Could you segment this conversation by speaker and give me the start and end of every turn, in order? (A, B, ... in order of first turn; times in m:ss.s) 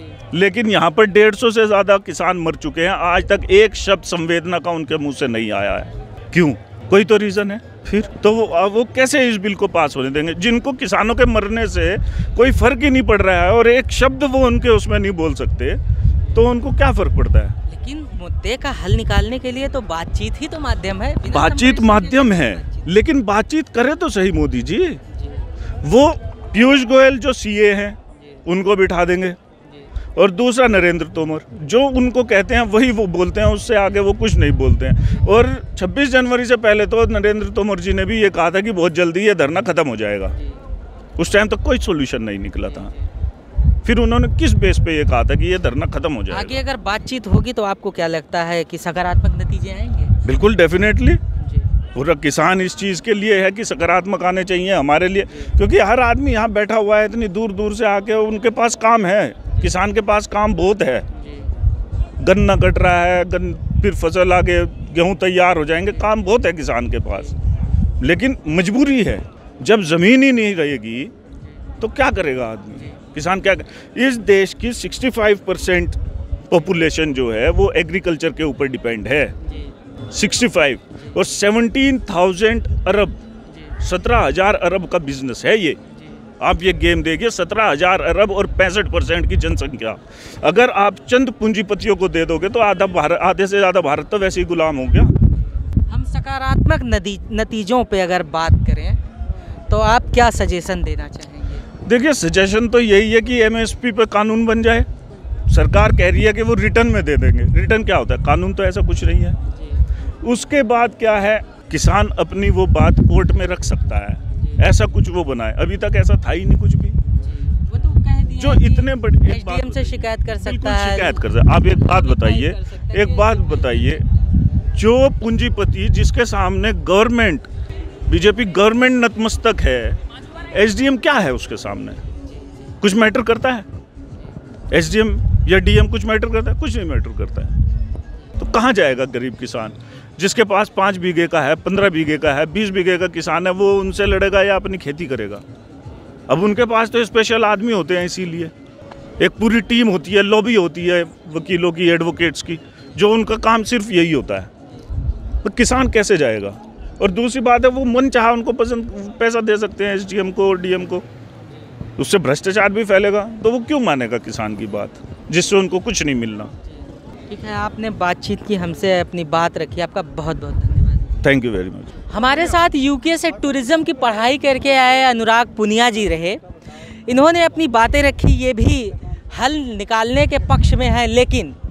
0:00.3-0:15.8 A
0:16.3-0:17.6 A
0:17.7-0:22.9 B
0:21.3-0:25.0 A
0:25.1-0:25.5 B
0:25.8-0:29.4 A
0:30.2-0:40.4 A
0:41.2-0:42.9 A
0:43.8-0:46.6 A
0:46.3-0:50.2 B
0:50.2-0:51.2 A
0:51.4-0:51.7 B
0:52.0-1:01.1 A
1:01.1-1:01.5 B
1:02.2-1:07.4 A
1:08.0-1:11.1 A
1:11.8-1:19.4 A
1:19.5-1:19.7 B
1:20.1-1:23.2 A
1:23.8-1:25.8 A
1:26.4-1:35.2 A
1:35.9-1:39.0 B
1:39.7-1:41.7 B
1:41.8-1:44.9 A
1:45.5-1:49.4 A
1:49.5-1:49.8 B
1:50.2-1:57.0 A
1:57.1-2:04.1 B
1:58.3-2:04.0 A
2:04.7-2:07.5 A
2:08.1-2:12.0 A
2:12.8-2:13.7 A
2:14.7-2:17.6 A
2:18.4-2:25.4 A
2:26.3-2:28.5 A
2:29.2-2:34.5 A
2:35.4-2:41.0 A
2:42.0-2:46.5 A
2:47.3-2:51.2 B
2:51.2-2:52.0 A
2:52.1-2:56.4 B
2:57.1-3:01.6 B